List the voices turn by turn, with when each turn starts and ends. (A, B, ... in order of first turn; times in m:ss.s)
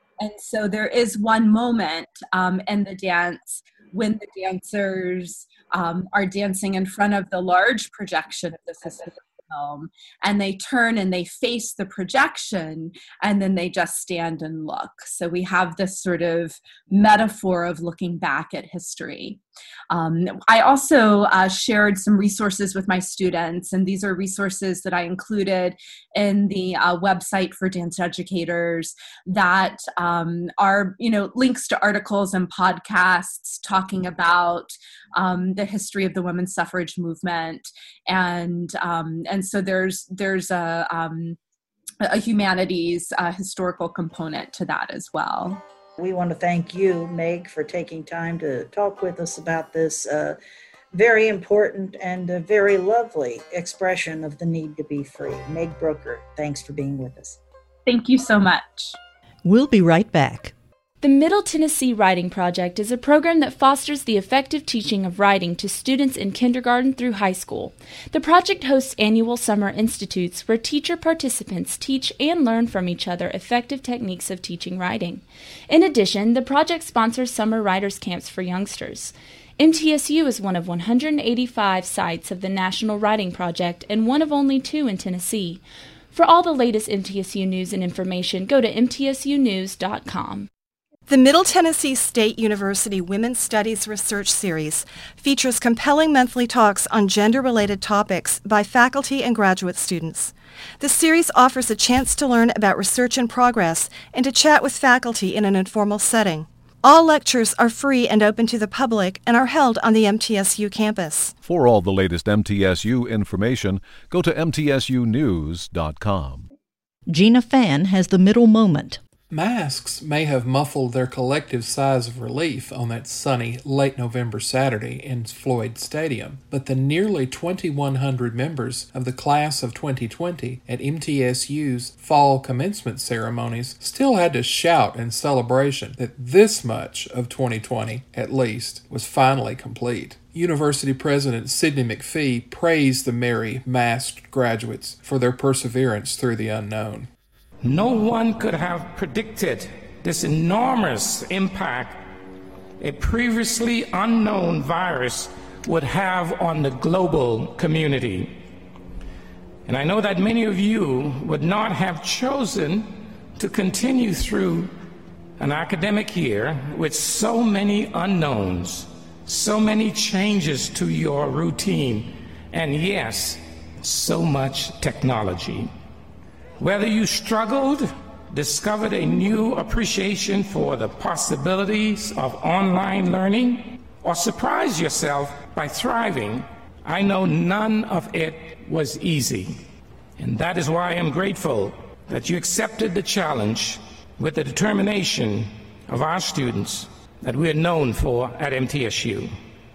0:00.2-0:41.4 A
0:42.0-0:45.6 A
0:46.0-0:50.4 B
0:50.9-0:57.4 B
0:57.8-0:59.0 A
0:59.4-1:00.5 C
1:01.0-1:30.5 D
1:31.1-1:51.3 E
1:51.4-1:56.5 F
1:57.1-1:59.0 C
1:59.3-2:27.1 G
2:27.6-2:32.0 H
2:32.8-2:38.4 H
2:39.6-2:44.7 H
2:45.4-2:55.7 H
2:56.6-3:09.6 H
3:10.2-3:19.3 H